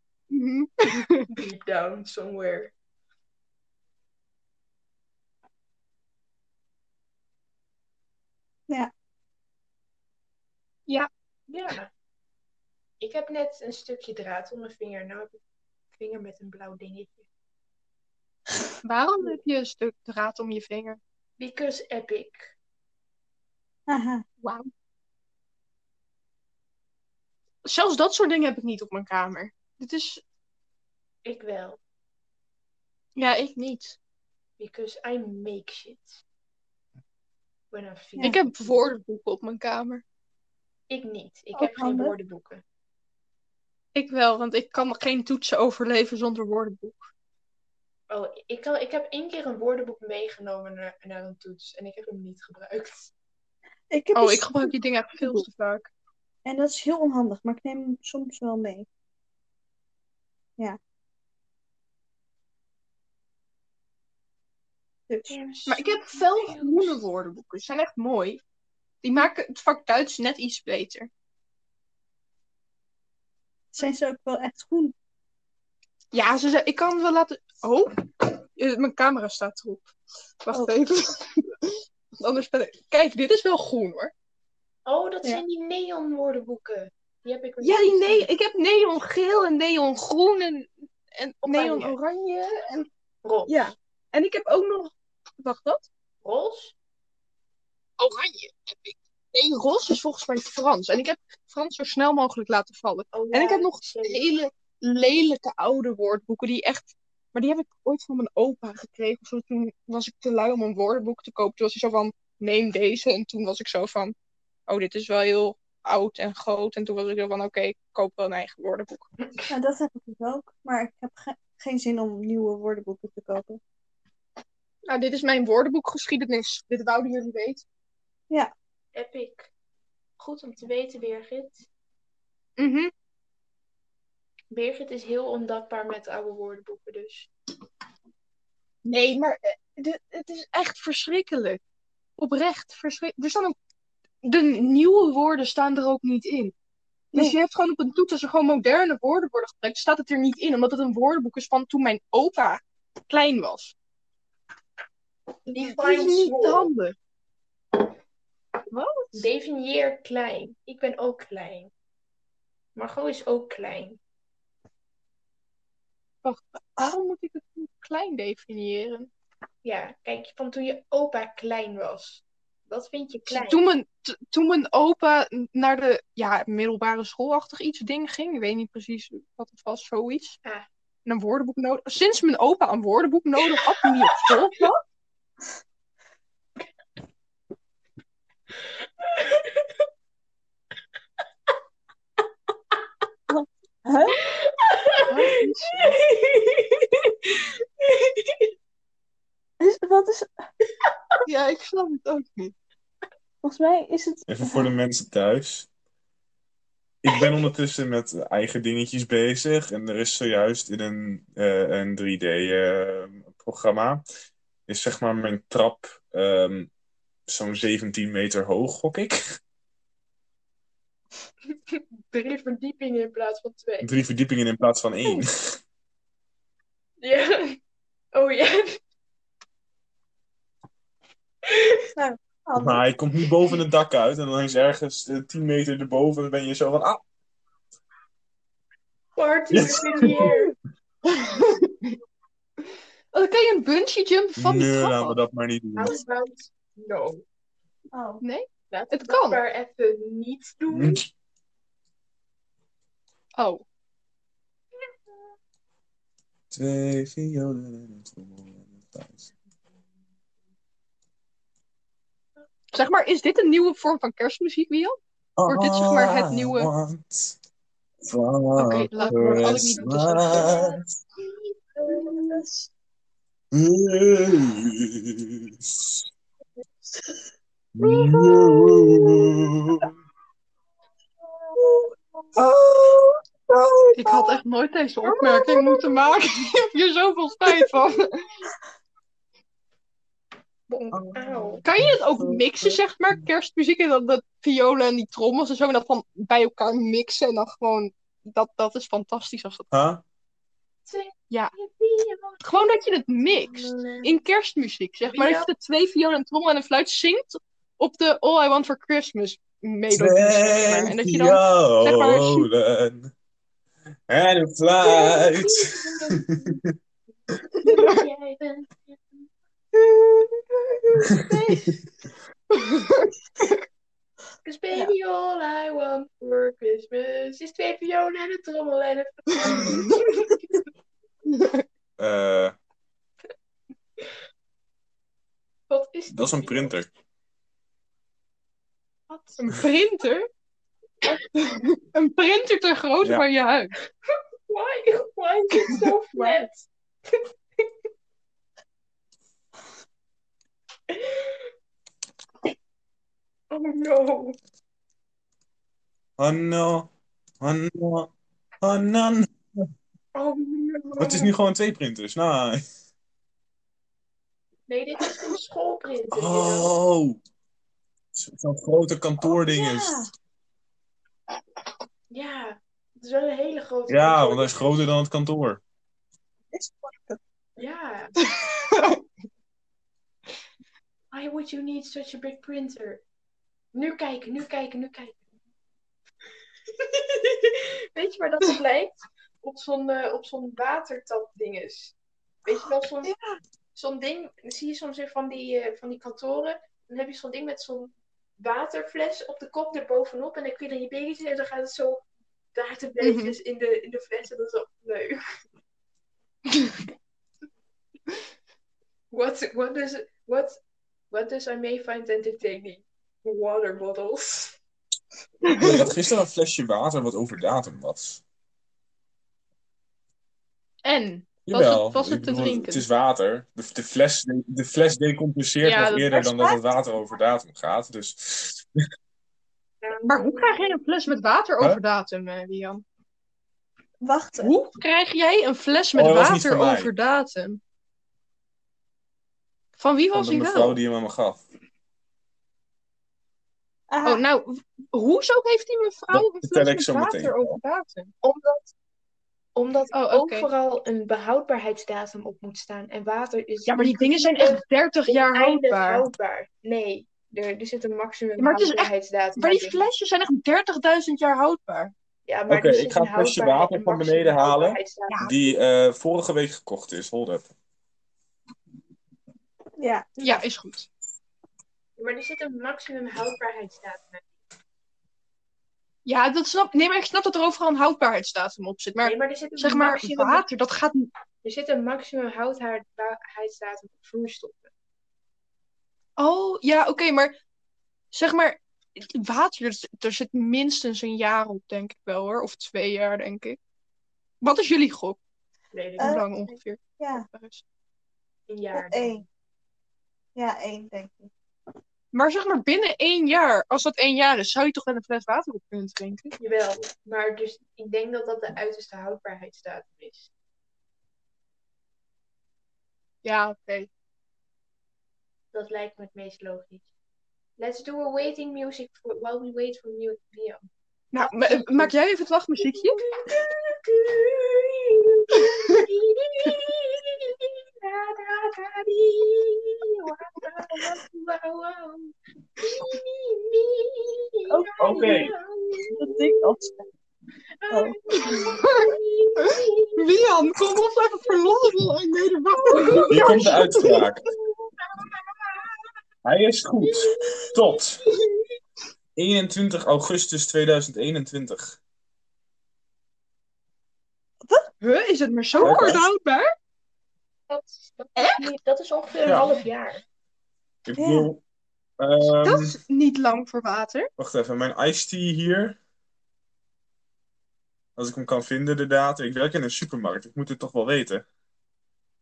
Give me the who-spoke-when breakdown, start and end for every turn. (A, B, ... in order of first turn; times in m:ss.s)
0:00.3-0:01.3 A
0:01.3-0:02.7 B
0:11.5-0:11.9 B
0:13.0-0:15.4 B
0:15.9-0:17.3 B
0:18.8-0:21.0 A
0:21.4-0:22.6 B
0:23.9-0:24.2 C
0:24.4-0:24.7 A
0:27.6-0:30.2 A
0:31.2-0:31.8 B
0:33.2-0:34.0 A
0:34.6-0:36.2 B
0:37.7-0:38.5 B
0:38.2-0:40.0 A
0:40.9-0:42.6 B
0:41.5-0:42.2 C
0:44.0-0:47.1 A
0:48.1-0:53.1 B
0:53.9-0:55.5 C
0:54.2-0:55.9 A
0:56.4-0:58.9 C
1:05.1-1:05.4 C
1:05.3-1:07.0 B
1:05.7-1:08.4 A
1:09.0-1:11.1 A
1:13.7-1:14.9 C
1:16.1-1:24.1 A
1:24.9-1:28.3 B
1:27.6-1:32.9 A
1:31.5-1:32.0 B
1:33.2-1:33.7 B
1:33.5-1:35.9 A
1:36.2-1:36.7 B
1:38.0-1:54.1 A
1:43.1-1:44.3 B
1:54.7-1:59.1 A
1:59.5-2:03.6 C
2:04.9-2:07.6 A
2:09.0-2:09.5 B
2:10.2-2:11.7 B
2:12.6-2:12.9 A
2:14.5-2:17.3 B
2:18.8-2:21.6 A
2:22.2-2:23.6 A
2:24.2-2:26.5 A
2:27.1-2:33.7 A
2:35.5-2:36.7 B
2:35.6-2:36.9 A
2:38.7-2:39.3 A
2:39.1-2:41.7 B
2:42.8-2:44.0 B
2:46.2-2:49.1 A
2:49.6-2:53.6 B
2:53.3-3:00.4 A
3:01.1-3:04.8 A
3:09.0-3:09.7 B
3:13.3-3:14.2 C
3:14.3-3:18.5 B
3:15.1-3:16.0 A
3:19.6-3:20.3 C
3:21.3-3:22.6 A
3:23.4-3:24.7 C
3:24.3-3:25.7 D
3:27.0-3:34.0 D
3:34.7-3:36.7 D
3:37.3-3:39.2 D
3:42.1-3:43.9 B
3:43.8-3:45.6 D
3:47.0-3:47.6 B
3:48.1-3:48.8 B
3:51.5-3:51.8 B
3:52.0-3:52.8 C
3:52.6-3:57.0 D
3:59.2-4:00.6 B
3:59.5-4:00.3 D
4:01.1-4:02.0 A
4:03.1-4:05.2 A
4:04.4-4:06.0 D
4:05.7-4:07.2 B
4:07.9-4:08.2 C
4:08.2-4:09.4 A
4:08.7-4:11.0 B
4:10.7-4:11.1 D
4:13.4-4:13.6 A
4:16.5-4:19.3 D
4:22.7-4:26.7 A
4:25.4-4:27.4 D
4:28.0-4:30.8 D
4:28.6-4:30.6 A
4:28.9-4:30.8 B
4:31.7-4:32.4 B
4:33.5-4:36.0 D
4:37.8-4:39.9 D
4:38.2-4:39.3 C
4:41.6-4:44.4 C
4:44.0-4:48.2 A
4:45.2-4:46.0 B
4:50.7-4:51.6 B
4:50.9-4:53.2 D
4:51.6-4:59.7 A
4:59.7-5:00.0 D
5:00.8-5:04.2 B
5:02.4-5:12.5 A
5:05.0-5:05.5 B
5:09.9-5:13.1 D
5:14.1-5:15.9 D
5:14.8-5:16.6 B
5:17.6-5:19.0 B
5:17.6-5:18.0 A
5:19.9-5:20.3 A
5:21.2-5:21.8 B
5:22.5-5:23.5 A
5:24.4-5:30.4 B
5:29.5-5:30.0 A
5:31.3-5:31.6 A
5:32.0-5:32.6 D
5:35.7-5:36.7 B
5:36.1-5:36.9 D
5:39.1-5:39.4 B
5:39.4-5:40.3 A
5:41.3-5:43.7 A
5:44.5-5:47.2 B
5:46.2-5:46.4 A
5:50.9-5:51.4 B
5:53.5-5:54.4 B
5:56.2-5:56.9 D
5:57.4-5:58.1 D
5:58.6-5:59.7 D
6:00.2-6:01.3 B
6:01.0-6:02.6 D
6:04.7-6:06.7 B
6:06.1-6:07.2 D
6:08.2-6:10.1 D
6:09.2-6:10.1 C
6:12.1-6:14.8 B
6:13.9-6:15.6 D
6:16.5-6:17.2 C
6:17.6-6:18.2 B
6:18.2-6:19.0 A
6:21.1-6:23.0 B
6:23.7-6:25.2 B
6:26.8-6:33.1 B
6:33.8-6:45.2 B
6:43.0-6:43.4 A
6:49.1-6:50.6 B
6:51.1-6:54.6 B
6:55.4-6:55.9 A
6:55.6-6:58.2 D
7:00.8-7:02.8 A
7:01.5-7:08.7 D
7:05.6-7:06.6 A
7:09.8-7:10.8 B
7:10.0-7:12.8 A
7:14.0-7:14.5 C
7:14.4-7:17.6 A
7:15.9-7:16.9 D
7:19.8-7:20.8 A
7:20.1-7:21.4 D
7:23.9-7:24.2 C
7:24.0-7:28.1 A
7:26.1-7:27.6 D
7:28.2-7:28.7 B
7:29.6-7:39.9 B
7:29.9-7:30.5 A
7:33.7-7:36.0 A
7:38.4-7:41.9 A
7:42.3-7:45.3 B
7:42.5-7:47.5 D
7:49.8-7:50.4 C
7:50.2-7:50.9 A
7:52.0-7:54.4 B
7:56.0-8:01.1 A
7:59.0-8:00.4 B
8:01.4-8:04.7 B
8:06.2-8:07.4 A
8:08.1-8:13.6 A
8:14.4-8:15.2 A
8:15.7-8:16.2 B
8:16.0-8:17.3 C
8:16.0-8:17.6 A
8:18.5-8:19.2 B
8:18.7-8:19.2 C
8:20.4-8:21.3 C
8:22.1-8:26.4 A
8:26.4-8:30.3 B
8:33.2-8:33.9 A
8:35.5-8:36.9 B
8:37.6-8:42.0 B
8:41.1-8:43.0 A
8:42.6-8:56.6 B
8:54.5-8:55.1 C
8:54.8-8:55.3 D
8:55.9-8:56.8 C
8:57.6-9:00.3 B
8:57.7-8:58.0 C
8:58.3-9:04.1 A
9:02.7-9:05.7 B
9:03.1-9:04.3 D
9:06.2-9:08.0 D
9:06.9-9:07.8 B
9:09.2-9:11.8 D
9:14.8-9:16.5 A
9:15.6-9:16.1 D
9:17.5-9:20.0 B
9:18.2-9:18.5 A
9:19.3-9:19.5 D
9:20.8-9:21.4 D
9:21.0-9:21.3 C
9:22.0-9:22.8 D
9:22.4-9:24.1 A
9:24.2-9:25.8 D
9:28.0-9:31.2 D